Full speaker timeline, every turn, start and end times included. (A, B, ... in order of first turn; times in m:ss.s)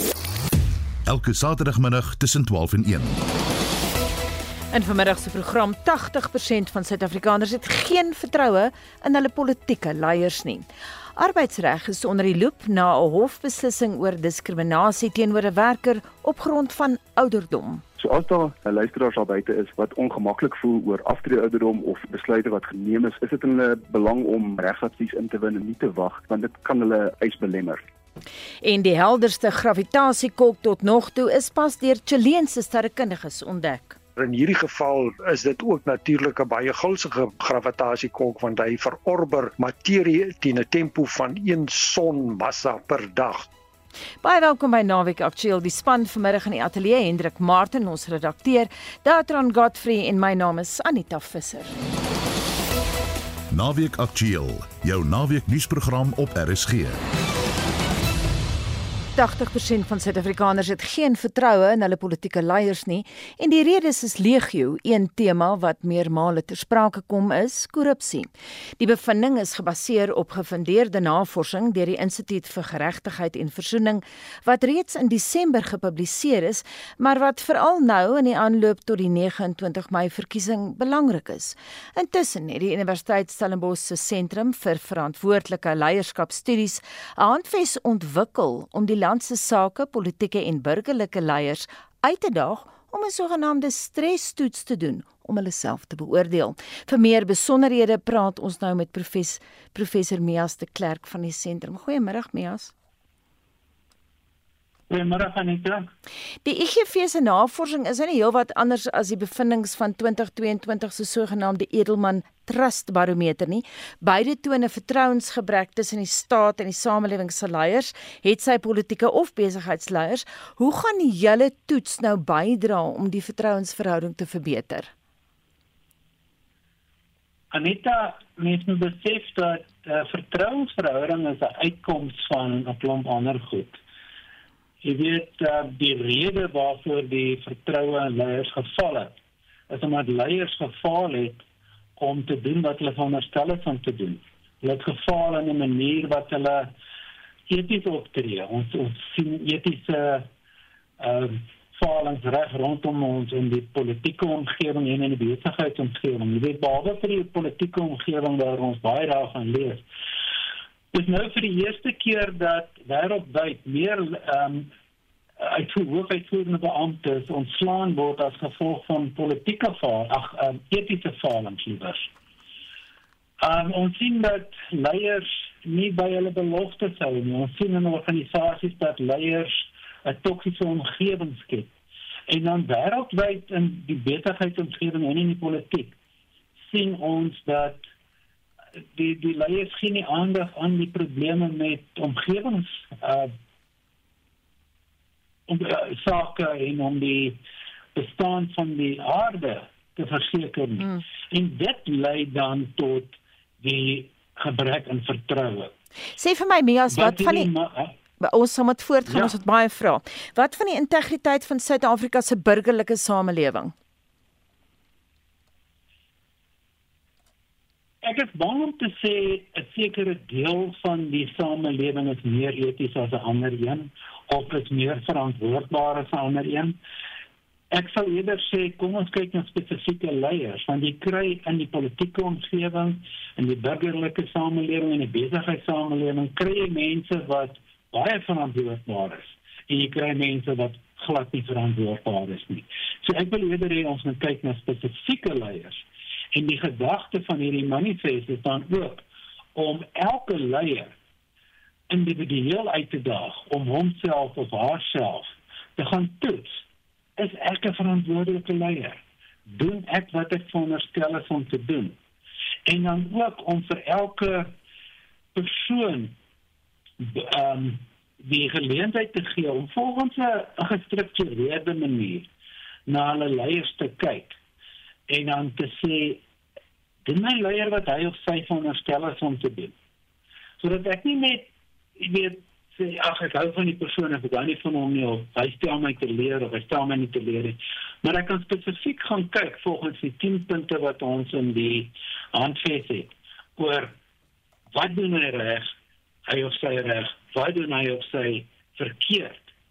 0:01.1-0:03.2 A
0:04.7-0:17.8 B
0:18.0-0:27.8 C
0:28.6-0:34.0 B
0:34.2-0:43.5 D
0:44.2-0:51.8 B
0:53.5-0:57.0 A
0:59.1-1:42.7 B
1:44.9-1:45.9 E
1:46.4-2:04.9 B
2:07.5-2:13.8 E
2:14.8-2:19.1 E
2:19.7-2:21.4 E
2:22.0-2:26.7 E
2:27.5-2:30.3 E
2:31.0-2:39.8 E
2:40.9-2:44.7 E
2:45.4-2:52.1 E
2:53.4-3:01.7 E
3:02.3-3:06.0 E
3:06.7-3:07.8 E
3:08.9-3:13.3 E
3:15.5-3:17.4 E
3:17.9-3:25.7 E
3:26.2-3:27.5 B
3:26.9-3:27.9 E
3:28.2-3:33.7 B
3:38.0-3:46.8 E
3:47.7-4:10.9 E
4:11.9-4:16.6 E
4:17.2-4:22.0 E
4:22.7-4:24.5 E
4:25.3-4:26.1 E
4:27.0-4:32.3 E
4:32.9-4:34.4 E
4:35.1-4:36.2 E
4:37.0-4:39.7 E
4:40.6-4:53.9 E
4:54.7-4:55.7 E
4:56.3-4:59.4 E